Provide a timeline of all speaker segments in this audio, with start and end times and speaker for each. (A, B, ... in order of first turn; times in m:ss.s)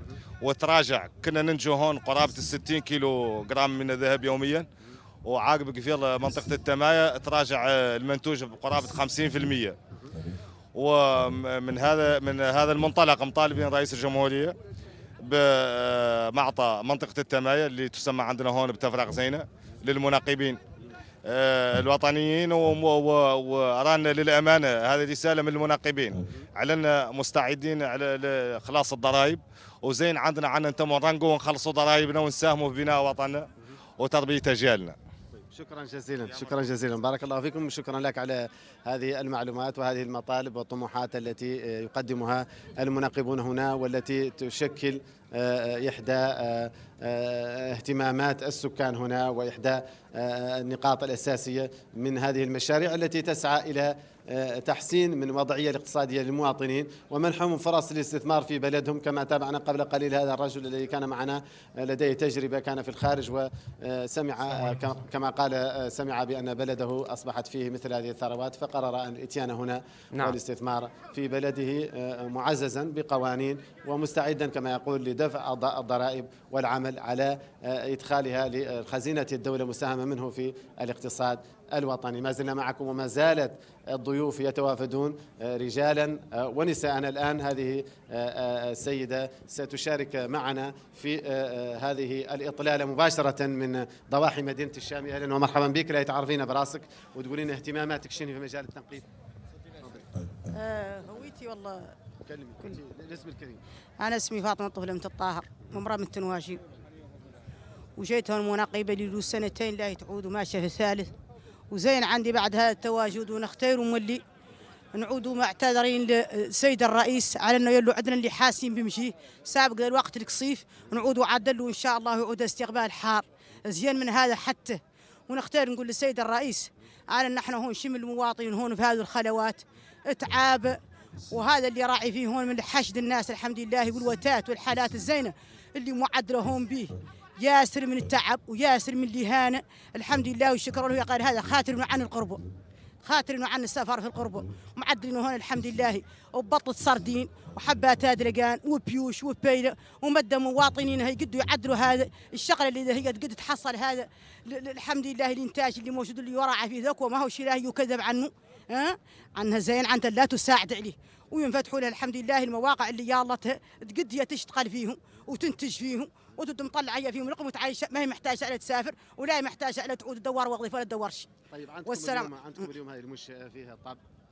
0:00.4-0:04.7 A
0:05.2-0:09.8 A
0:10.7-0:14.5 A
0:15.2-0:20.6 A
0:21.2-0:33.5 A
0:34.0-0:35.0 A
0:35.4-1:39.1 B
1:39.8-1:40.0 B
1:40.5-1:41.9 C
1:42.2-1:43.6 B
1:44.0-1:46.6 C
1:48.0-1:51.1 C
1:51.7-1:54.2 C
1:54.9-2:22.4 C
2:23.0-2:51.3 C
2:51.5-2:54.0 B
2:51.8-2:52.3 C